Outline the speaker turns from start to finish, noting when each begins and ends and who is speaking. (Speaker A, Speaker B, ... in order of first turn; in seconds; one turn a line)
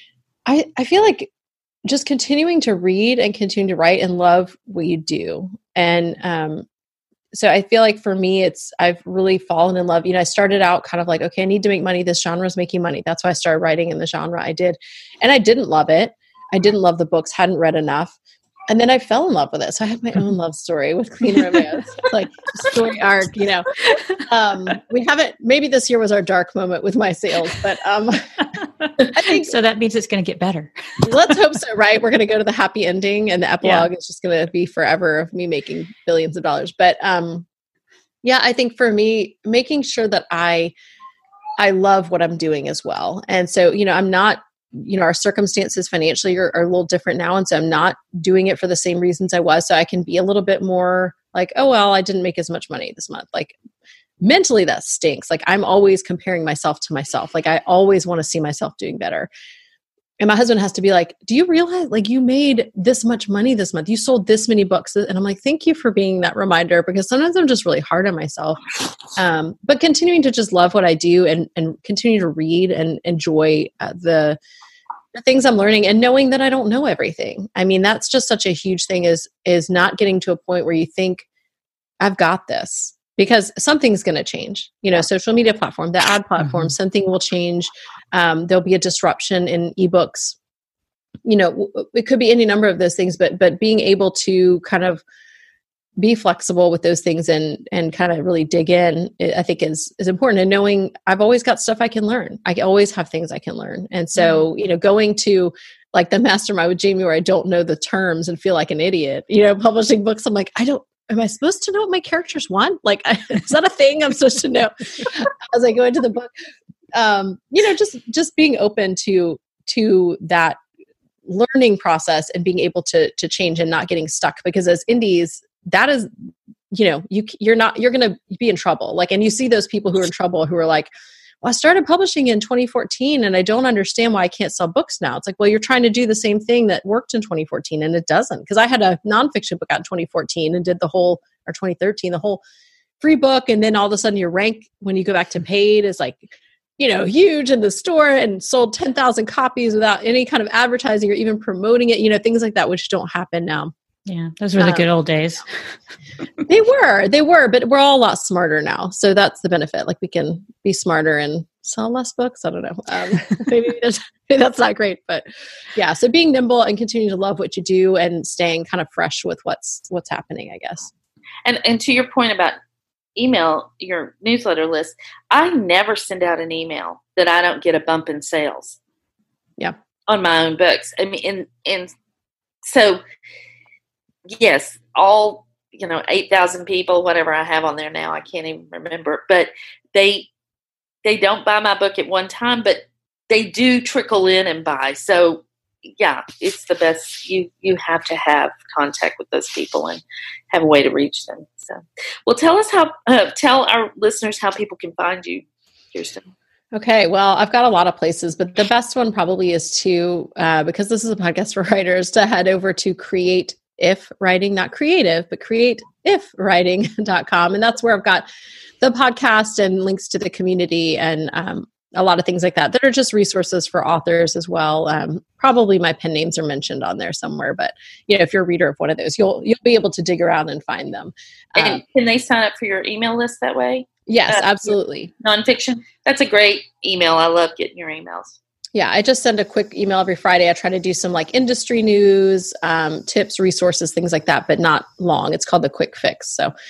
Speaker A: 0.5-1.3
Speaker A: 1.9-6.7
Speaker A: 7.3-18.2
Speaker A: 18.7-28.3
Speaker B: 28.8-31.0
Speaker A: 29.1-29.5
Speaker A: 31.0-37.5
Speaker B: 33.6-33.9
Speaker A: 38.2-40.7
Speaker A: 41.6-53.5
Speaker A: 54.2-59.3
Speaker A: 60.2-68.6
Speaker A: 69.2-74.4
Speaker A: 75.1-81.3
Speaker A: 82.0-90.4
Speaker B: 86.4-86.7
Speaker A: 91.2-95.0
Speaker A: 96.0-116.3
Speaker A: 116.9-120.6
Speaker A: 121.3-130.9
Speaker A: 131.4-142.4
Speaker A: 143.0-153.7
Speaker B: 154.1-155.5
Speaker A: 154.6-154.9
Speaker A: 156.5-170.9
Speaker C: 171.4-172.6
Speaker C: 173.2-178.8
Speaker C: 180.1-181.9
Speaker C: 182.6-183.0
Speaker C: 184.3-190.3
Speaker C: 191.0-206.3
Speaker A: 206.7-218.3
Speaker A: 218.8-231.8
Speaker C: 231.6-238.4
Speaker A: 234.1-235.1
Speaker A: 238.8-246.5